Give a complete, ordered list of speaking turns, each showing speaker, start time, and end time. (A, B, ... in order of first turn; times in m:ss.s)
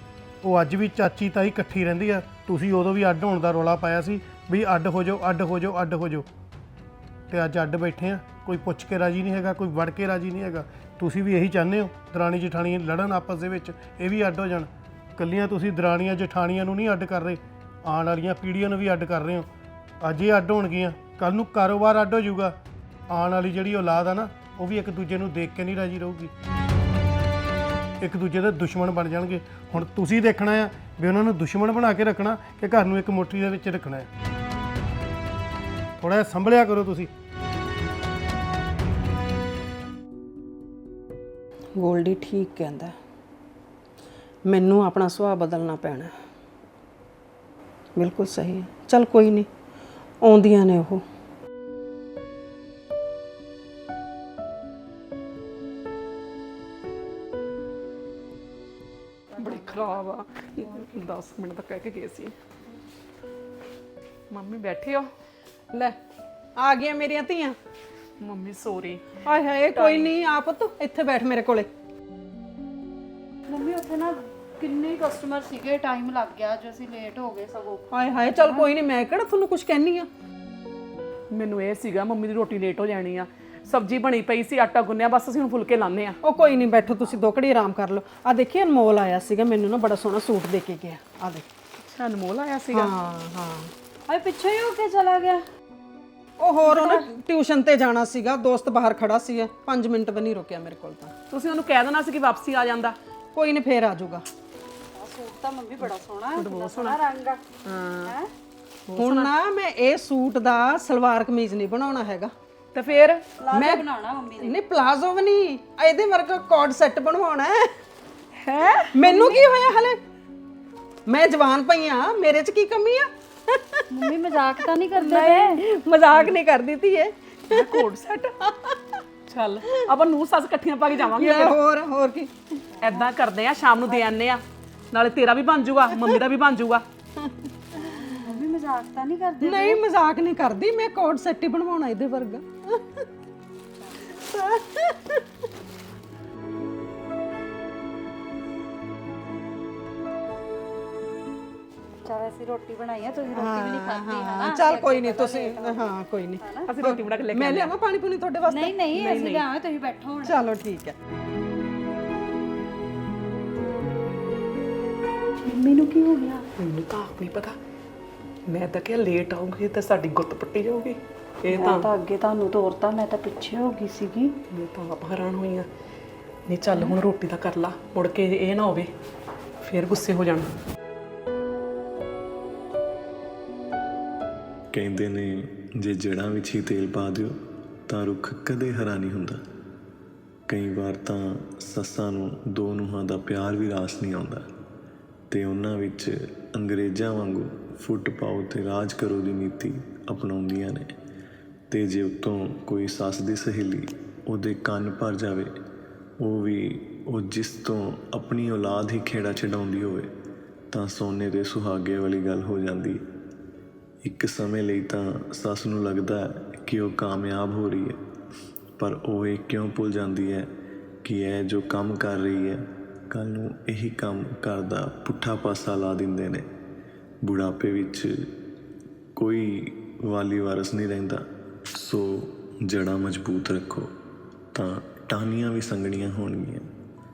0:00.4-0:06.3 A
0:07.3-0:19.5 A
0:20.0-0:22.6 A
0:23.1-0:26.3 A
0:28.0-0:34.1 A
0:36.0-0:37.1 A
0:41.8-0:43.0 B
0:44.5-0:46.1 B
0:48.0-0:49.5 B
0:50.2-0:51.0 B
0:59.3-1:00.0 C
0:59.4-1:02.4 D
1:00.6-1:01.0 C
1:04.3-1:05.1 D
1:05.7-1:06.0 B
1:06.6-1:07.6 B
1:08.2-1:09.1 D
1:09.2-1:11.7 B
1:09.7-1:10.1 D
1:13.5-1:18.7 C
1:17.9-1:20.1 B
1:21.3-1:26.2 D
1:26.2-1:31.5 B
1:31.8-1:32.9 D
1:32.7-1:33.7 B
1:34.1-1:35.4 C
1:36.4-1:41.2 B
1:36.7-1:37.1 C
1:41.3-1:43.0 D
1:43.3-1:44.2 B
1:44.9-1:47.4 C
1:46.4-1:47.0 D
1:47.6-1:48.2 D
1:48.0-1:48.3 C
1:48.9-1:49.3 D
1:49.0-1:52.3 B
1:52.7-1:53.3 D
1:53.4-1:54.6 C
1:53.5-1:53.9 B
1:54.4-1:57.8 B
1:58.4-1:58.9 D
1:58.9-2:00.0 B
1:59.0-1:59.4 C
2:01.1-2:04.2 B
2:03.9-2:05.6 C
2:04.9-2:07.8 B
2:07.5-2:08.4 D
2:08.4-2:08.8 B
2:09.3-2:11.6 D
2:11.1-2:12.6 B
2:12.8-2:16.8 D
2:17.2-2:18.4 B
2:17.8-2:19.8 C
2:19.4-2:23.1 B
2:24.1-2:25.3 B
2:32.0-2:35.9 C
2:33.3-2:39.4 B
2:36.4-2:36.7 C
2:36.7-2:37.7 D
2:38.5-2:40.4 C
2:40.2-2:41.0 B
2:45.4-2:46.5 C
2:46.6-2:47.6 D
2:48.5-2:51.9 D
2:51.5-2:54.4 C
2:54.5-2:55.7 D
2:56.5-2:58.9 D
2:59.6-3:00.5 D
3:04.7-3:07.4 E
3:07.9-3:09.4 E
3:10.5-3:14.4 E
3:15.3-3:20.9 E
3:21.7-3:25.5 E
3:26.2-3:30.1 E
3:30.7-3:33.0 E
3:34.0-3:38.0 E
3:38.8-3:40.5 E
3:41.0-3:46.4 E
3:47.2-3:48.3 E
3:49.2-3:51.2 E
3:51.8-3:53.9 E
3:54.5-3:56.7 E